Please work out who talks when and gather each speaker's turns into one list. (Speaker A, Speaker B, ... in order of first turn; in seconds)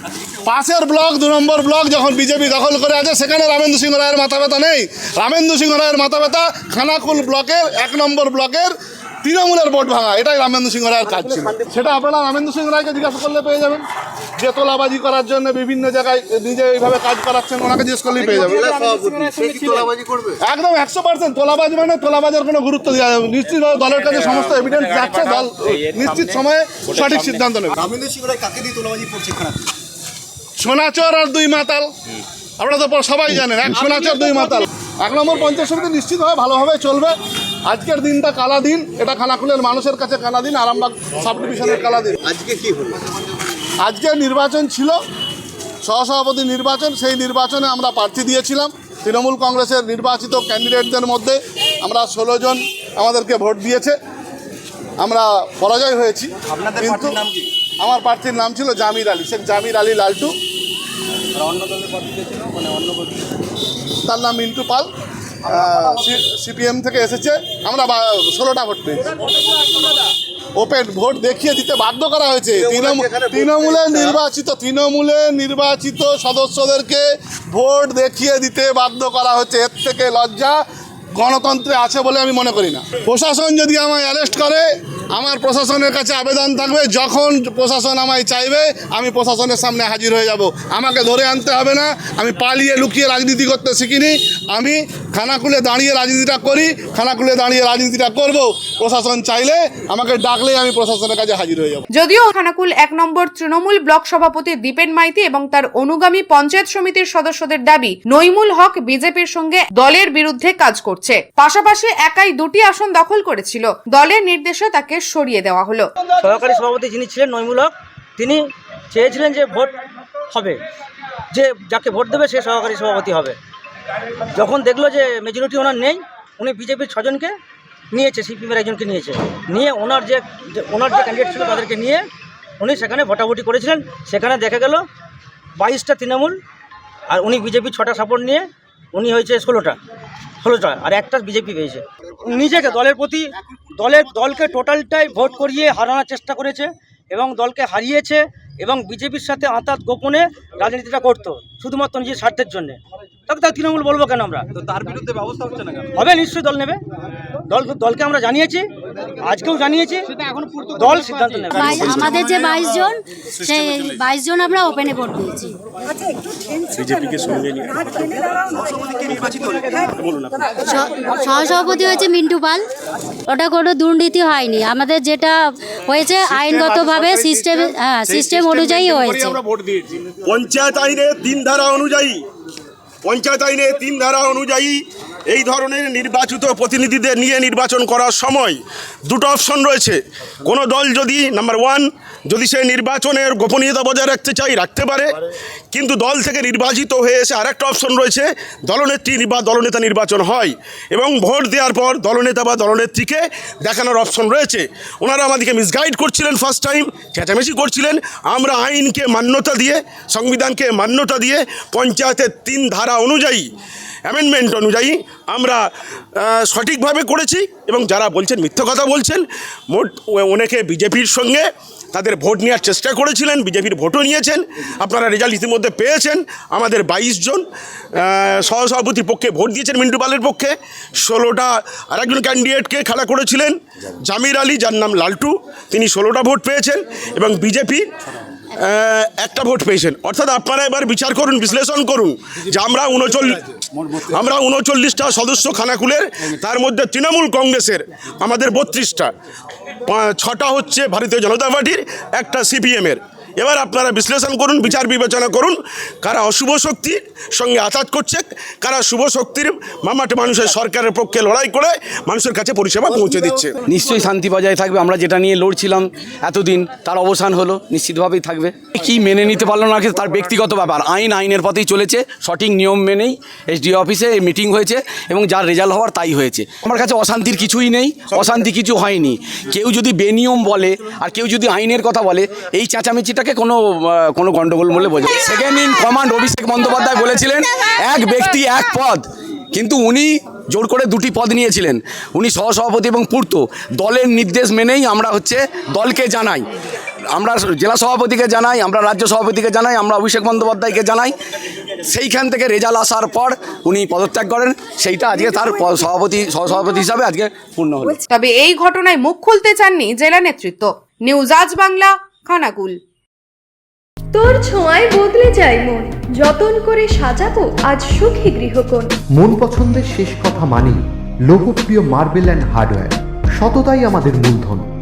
Speaker A: 0.4-13.8, 14.4-18.9, 20.4-27.8, 30.6-31.9, 32.6-37.1, 37.7-42.2, 43.8-45.0, 45.8-54.0, 55.0-60.3, 64.0-64.9, 65.5-69.1, 70.5-80.6, 81.1-101.8
Speaker B: 11.2-11.6, 116.2-119.8, 120.3-120.6, 121.3-123.4, 124.3-127.3, 127.9-132.0, 132.6-134.8, 135.6-136.4, 137.1-139.8, 140.4-154.8, 155.9-156.8, 157.5-158.7, 159.2-160.1, 160.7-162.2
Speaker C: 18.2-20.2, 27.9-29.5, 42.3-42.8, 72.6-74.1
Speaker D: 61.6-63.0, 263.6-296.4, 297.1-301.1, 301.9-308.0
Speaker E: 101.9-115.9, 308.1-312.8
Speaker F: 161.5-165.6, 170.6-172.6, 173.3-179.4
Speaker G: 166.7-168.2, 168.8-170.5, 180.2-182.2, 183.0-195.2, 195.7-213.4, 214.1-215.6, 216.2-227.4, 227.9-237.8, 238.6-249.1, 249.9-263.6
Speaker H: 314.1-318.9
Speaker I: 319.1-324.7